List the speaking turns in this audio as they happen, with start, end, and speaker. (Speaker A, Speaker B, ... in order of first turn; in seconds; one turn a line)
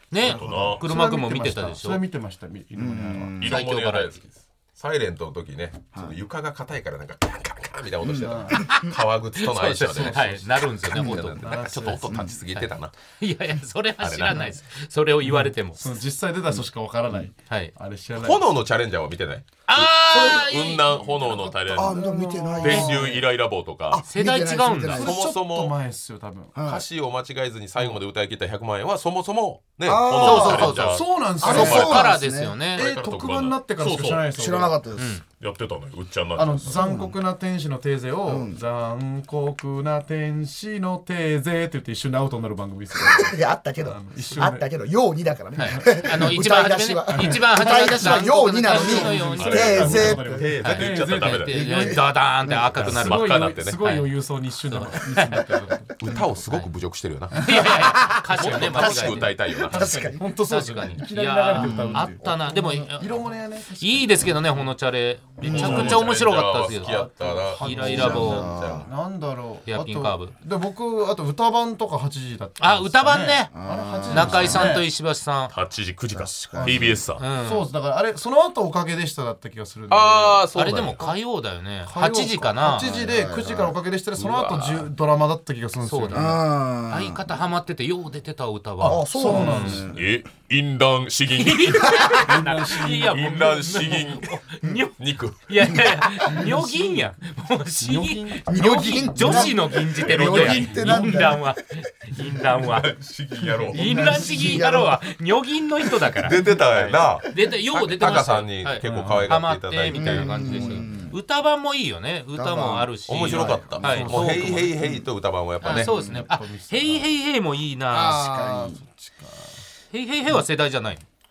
Speaker A: 0.1-2.0
Speaker B: 0.2-0.8
Speaker C: 0.2-0.9
Speaker D: 0.8-3.4
Speaker C: 2.8-3.6
Speaker B: 3.4-12.9
Speaker A: 3.5-4.2
Speaker C: 8.0-8.9
Speaker D: 8.2-8.7
Speaker A: 9.4-11.4
Speaker D: 9.9-10.3
Speaker C: 10.9-11.2
Speaker D: 11.4-12.1
Speaker C: 12.0-12.3
Speaker A: 12.5-15.9
Speaker B: 14.0-14.5
Speaker D: 15.2-18.5
Speaker A: 17.5-17.7
Speaker B: 18.1-22.0
Speaker A: 19.7-20.9
Speaker C: 20.1-20.5
Speaker D: 21.7-23.2
Speaker C: 21.7-23.2
Speaker B: 22.6-24.0
Speaker C: 23.9-25.2
Speaker A: 24.1-25.1
Speaker D: 24.9-26.5
Speaker B: 24.9-25.8
Speaker C: 26.6-26.9
Speaker B: 26.6-32.2
Speaker C: 29.9-30.8
Speaker A: 30.2-32.9
Speaker D: 30.6-32.1
Speaker C: 31.4-32.6
Speaker D: 32.7-34.8
Speaker B: 32.8-34.3
Speaker C: 34.3-35.2
Speaker A: 35.0-35.2
Speaker B: 35.4-36.9
Speaker D: 36.4-44.7
Speaker C: 36.7-37.1
Speaker C: 38.2-38.6
Speaker C: 43.0-50.6
Speaker A: 45.6-49.8
Speaker D: 45.6-46.4
Speaker D: 47.1-55.9
Speaker B: 49.4-51.9
Speaker A: 50.6-54.1
Speaker C: 51.8-52.7
Speaker B: 52.8-53.8
Speaker A: 54.7-55.0
Speaker B: 56.0-57.7
Speaker A: 57.4-59.3
Speaker D: 57.4-64.7
Speaker B: 58.3-59.9
Speaker C: 59.7-60.3
Speaker A: 60.5-63.2
Speaker C: 61.5-62.1
Speaker A: 63.8-67.1
Speaker B: 65.4-68.9
Speaker D: 65.4-74.9
Speaker C: 65.4-66.0
Speaker A: 67.6-68.5
Speaker C: 67.8-68.9
Speaker A: 69.7-70.3
Speaker A: 72.6-73.5
Speaker C: 73.5-74.8
Speaker A: 74.0-75.5
Speaker B: 75.5-77.2
Speaker C: 76.1-77.0
Speaker D: 76.6-81.1
Speaker A: 77.2-77.7
Speaker B: 79.9-81.1
Speaker A: 80.5-82.9
Speaker D: 81.8-86.4
Speaker C: 82.7-83.8
Speaker B: 84.2-84.9
Speaker A: 85.8-89.9
Speaker C: 86.1-87.2
Speaker D: 88.8-90.0
Speaker C: 88.8-90.1
Speaker B: 89.9-92.3
Speaker A: 91.4-102.9
Speaker D: 92.1-93.3
Speaker B: 92.8-94.3
Speaker B: 95.0-96.1
Speaker D: 96.2-97.2
Speaker D: 97.7-101.3
Speaker C: 98.5-101.6
Speaker B: 100.0-101.1
Speaker B: 102.6-104.2
Speaker D: 103.4-104.6
Speaker C: 103.7-105.0
Speaker A: 103.7-114.5
Speaker C: 106.1-106.5
Speaker B: 106.2-110.9
Speaker D: 108.8-109.4
Speaker C: 109.9-111.2
Speaker C: 112.3-112.9
Speaker B: 113.1-116.0
Speaker D: 113.3-114.8
Speaker C: 114.8-115.0
Speaker A: 115.6-118.3
Speaker D: 115.7-117.1
Speaker C: 115.7-116.3
Speaker D: 117.9-119.6
Speaker C: 118.0-118.8
Speaker A: 119.9-121.0